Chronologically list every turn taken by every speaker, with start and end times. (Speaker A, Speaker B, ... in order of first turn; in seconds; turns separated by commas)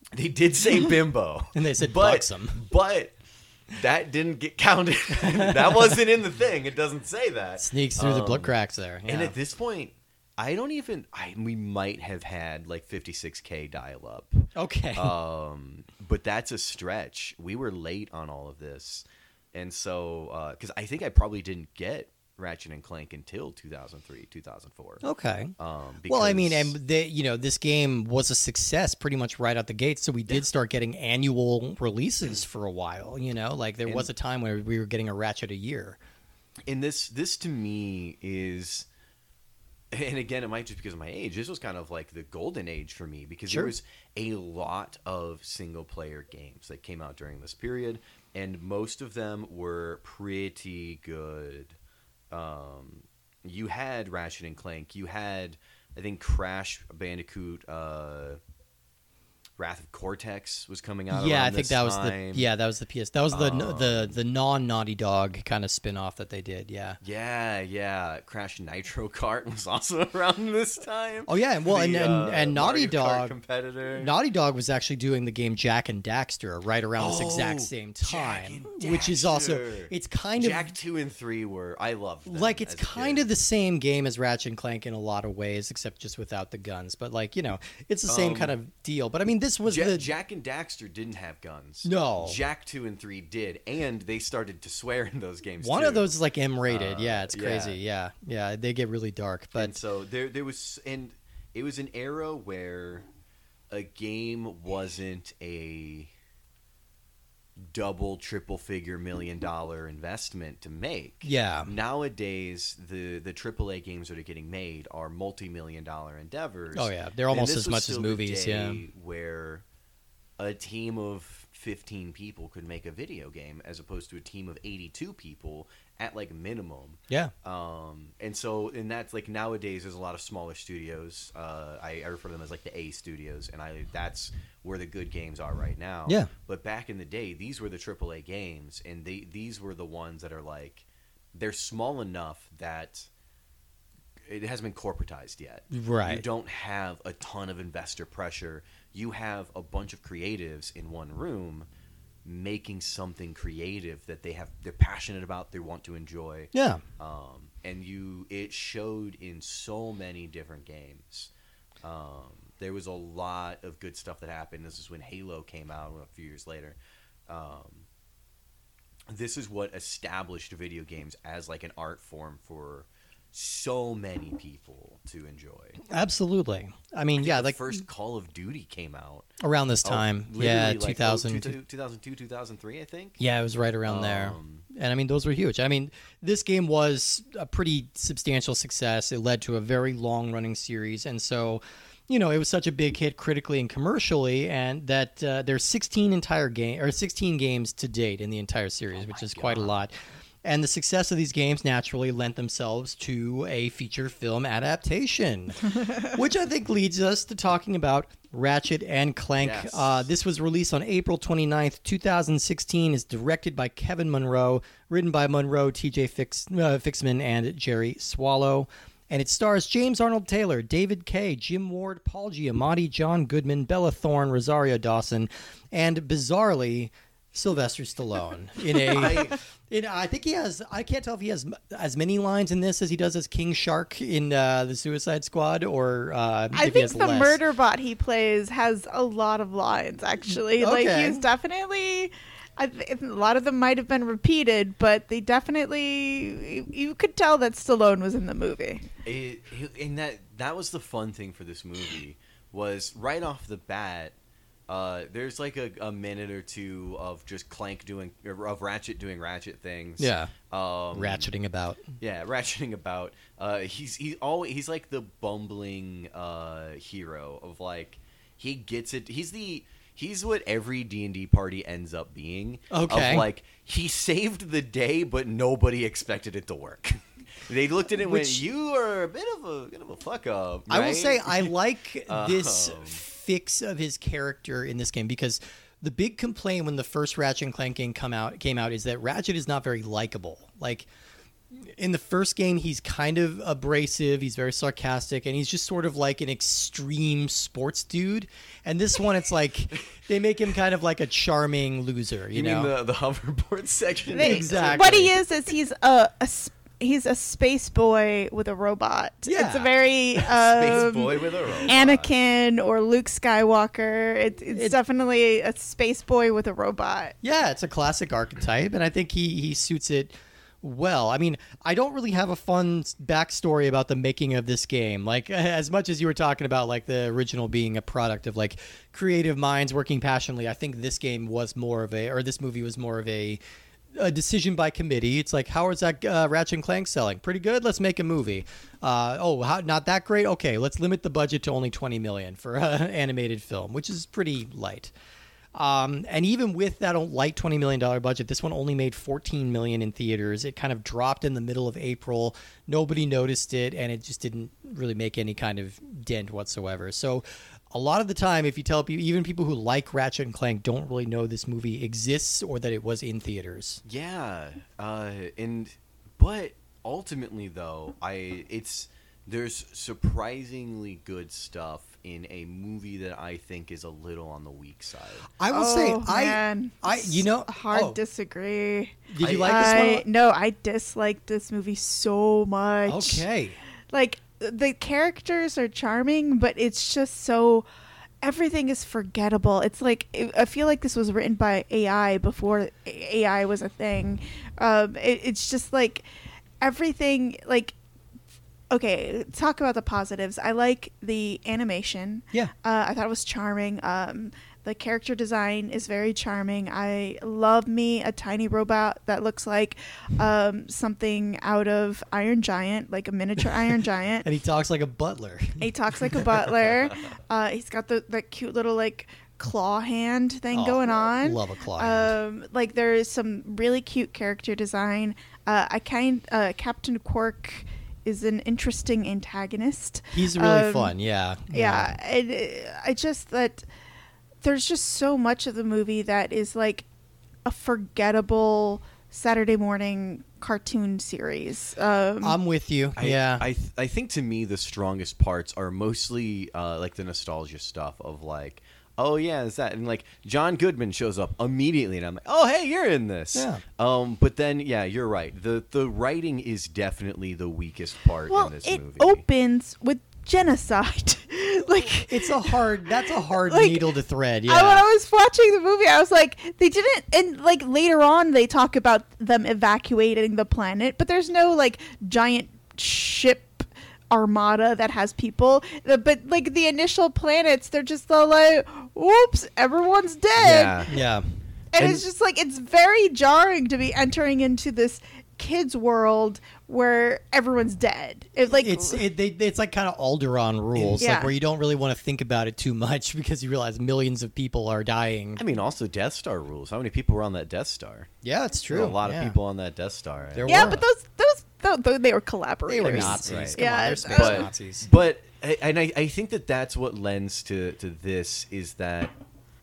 Speaker A: 0.1-3.1, Speaker B: 1.5-2.7, Speaker A: 3.7-8.5, Speaker B: 5.2-6.0, Speaker B: 7.6-9.3, Speaker A: 9.1-25.0, Speaker B: 14.6-15.2, Speaker B: 25.0-25.5, Speaker A: 25.6-26.7, Speaker B: 26.1-36.0, Speaker A: 33.9-34.1, Speaker A: 36.7-38.9, Speaker A: 39.9-51.8, Speaker A: 52.3-58.4, Speaker A: 59.6-62.5, Speaker B: 61.1-67.0, Speaker A: 63.3-64.2, Speaker A: 67.0-74.1, Speaker B: 71.3-73.4, Speaker B: 74.0-80.7, Speaker A: 77.0-83.3, Speaker B: 82.3-90.1, Speaker A: 88.1-88.5, Speaker A: 89.7-96.1, Speaker B: 91.8-92.4, Speaker B: 95.6-99.8, Speaker A: 96.7-97.8, Speaker A: 99.5-103.1, Speaker A: 103.7-106.1, Speaker A: 107.6-119.6, Speaker B: 111.2-111.7, Speaker B: 116.8-118.8, Speaker A: 120.4-143.1, Speaker A: 144.2-151.7, Speaker B: 145.7-146.2, Speaker A: 152.2-161.3, Speaker B: 156.5-156.8, Speaker A: 161.8-167.9, Speaker A: 169.1-175.8, Speaker B: 175.9-177.8, Speaker A: 177.2-179.3, Speaker B: 179.4-181.6, Speaker A: 179.8-183.2, Speaker B: 183.2-199.9, Speaker A: 183.9-184.7, Speaker A: 198.9-199.7, Speaker B: 200.4-237.4, Speaker A: 209.4-210.1, Speaker A: 228.9-229.4, Speaker C: 236.5-248.9, Speaker B: 240.3-241.2, Speaker A: 249.0-254.2, Speaker A: 254.7-261.3, Speaker B: 260.0-260.3, Speaker B: 260.9-261.9, Speaker A: 262.0-283.0, Speaker B: 272.7-273.3, Speaker B: 278.0-278.4, Speaker B: 280.7-290.9, Speaker B: 291.6-302.7, Speaker A: 302.3-305.1, Speaker C: 304.1-317.2, Speaker B: 304.2-305.1, Speaker B: 309.3-309.7, Speaker A: 310.3-312.1, Speaker B: 317.2-333.4, Speaker B: 333.9-344.9, Speaker B: 345.6-363.8, Speaker A: 363.9-375.3, Speaker B: 375.4-378.0, Speaker C: 375.5-383.2, Speaker B: 379.1-380.1, Speaker A: 379.2-379.7, Speaker B: 382.9-383.6, Speaker C: 383.9-387.7, Speaker C: 388.2-396.1, Speaker C: 396.6-397.7, Speaker C: 398.7-414.3, Speaker B: 413.4-413.7, Speaker B: 414.2-416.2, Speaker C: 415.6-430.9, Speaker B: 420.5-422.2, Speaker B: 430.1-431.9, Speaker C: 431.5-433.7, Speaker C: 434.4-436.9, Speaker C: 437.4-442.4, Speaker B: 442.2-443.4, Speaker A: 443.0-459.2, Speaker B: 453.4-453.6, Speaker C: 458.3-462.6, Speaker B: 462.1-464.9, Speaker C: 463.3-463.9, Speaker C: 464.5-480.9, Speaker A: 480.4-480.9, Speaker B: 480.9-481.4, Speaker C: 481.7-489.0, Speaker A: 481.8-482.0, Speaker B: 488.5-495.4, Speaker A: 490.7-491.0, Speaker C: 491.0-491.3, Speaker A: 495.4-498.1, Speaker B: 498.2-499.4, Speaker A: 498.7-500.8, Speaker B: 500.3-500.8, Speaker C: 500.5-504.5, Speaker B: 502.7-504.9, Speaker A: 502.8-509.2